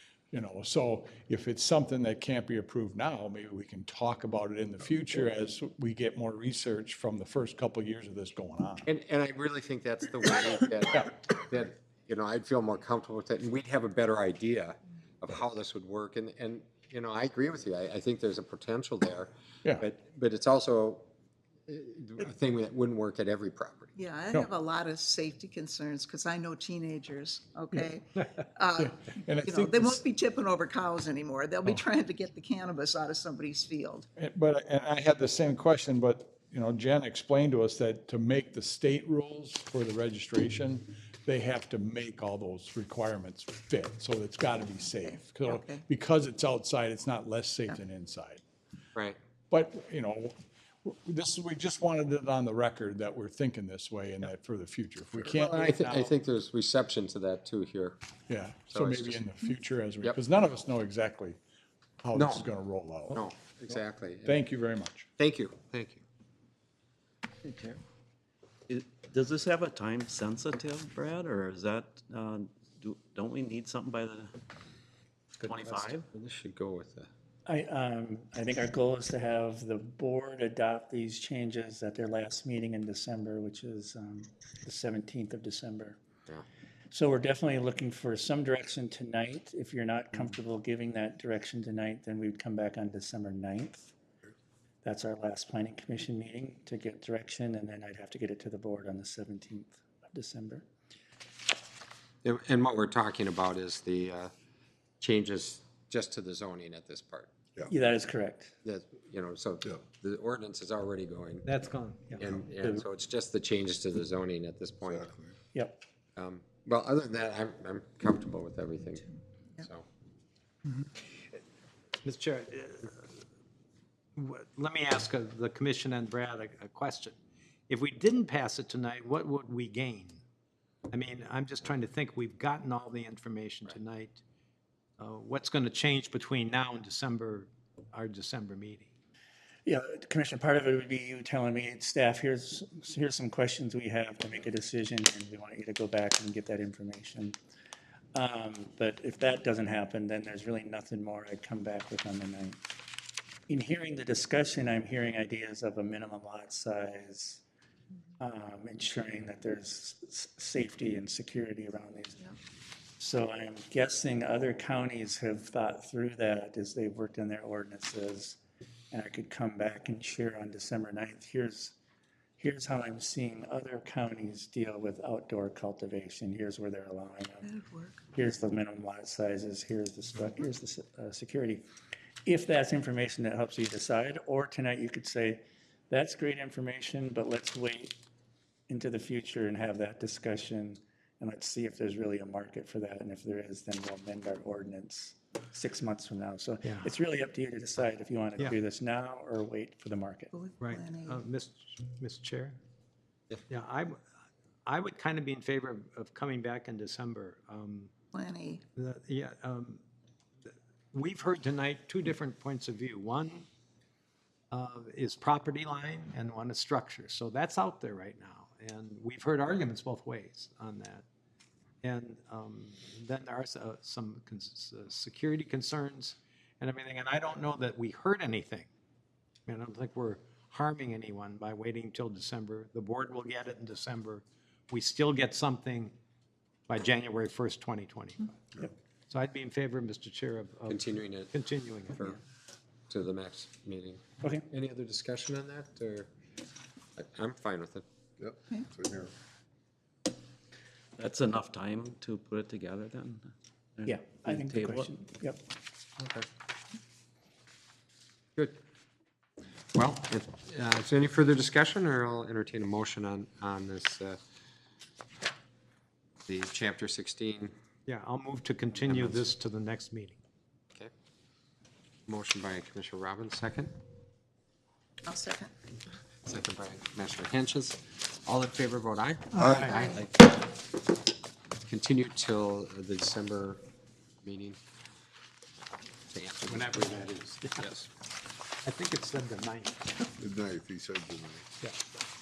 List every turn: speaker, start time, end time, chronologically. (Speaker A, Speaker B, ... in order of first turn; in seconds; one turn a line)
Speaker A: 0.3-8.9
Speaker B: 8.8-21.1
Speaker B: 21.7-23.9
Speaker C: 23.9-28.9
Speaker A: 28.8-30.0
Speaker C: 29.4-34.0
Speaker A: 34.2-48.4
Speaker C: 45.0-45.8
Speaker A: 49.5-56.1
Speaker B: 55.2-58.0
Speaker A: 58.3-61.4
Speaker B: 58.7-59.3
Speaker A: 62.0-65.1
Speaker B: 62.1-62.5
Speaker B: 63.1-64.4
Speaker B: 65.2-66.0
Speaker D: 68.7-74.3
Speaker D: 75.4-76.0
Speaker B: 75.4-77.1
Speaker E: 77.5-86.0
Speaker E: 86.9-93.9
Speaker E: 94.8-100.7
Speaker B: 102.2-104.3
Speaker B: 105.0-107.3
Speaker E: 107.7-108.5
Speaker B: 108.6-111.5
Speaker F: 111.4-112.2
Speaker B: 112.2-115.1
Speaker G: 114.9-115.3
Speaker E: 115.5-115.8
Speaker B: 116.2-119.8
Speaker F: 122.0-123.1
Speaker F: 124.2-127.2
Speaker F: 127.7-130.2
Speaker F: 130.9-134.2
Speaker F: 135.0-138.9
Speaker E: 139.7-147.4
Speaker E: 148.1-152.6
Speaker E: 153.5-157.4
Speaker E: 158.2-162.3
Speaker E: 163.0-168.4
Speaker E: 168.9-171.7
Speaker E: 172.4-177.5
Speaker C: 177.4-178.0
Speaker E: 178.1-181.6
Speaker E: 182.2-187.9
Speaker E: 188.7-200.3
Speaker F: 196.6-196.9
Speaker C: 200.3-201.1
Speaker F: 200.6-202.6
Speaker F: 203.5-204.0
Speaker F: 204.7-207.9
Speaker C: 208.1-208.6
Speaker F: 208.7-209.8
Speaker F: 210.9-213.4
Speaker F: 214.5-221.0
Speaker F: 221.8-228.7
Speaker F: 229.5-235.9
Speaker F: 236.7-238.4
Speaker F: 239.1-242.2
Speaker B: 240.7-242.2
Speaker B: 242.9-246.1
Speaker B: 247.0-247.8
Speaker G: 248.2-249.1
Speaker D: 251.0-254.9
Speaker E: 253.8-255.4
Speaker B: 256.0-256.2
Speaker B: 259.7-264.2
Speaker B: 266.3-267.5
Speaker F: 267.9-270.2
Speaker B: 268.9-269.2
Speaker B: 272.1-273.7
Speaker C: 275.0-275.5
Speaker B: 276.2-280.5
Speaker F: 279.4-279.8
Speaker B: 281.6-283.6
Speaker B: 284.2-284.6
Speaker B: 286.1-287.1
Speaker F: 286.5-287.9
Speaker B: 287.6-287.8
Speaker F: 288.6-290.1
Speaker G: 290.2-291.5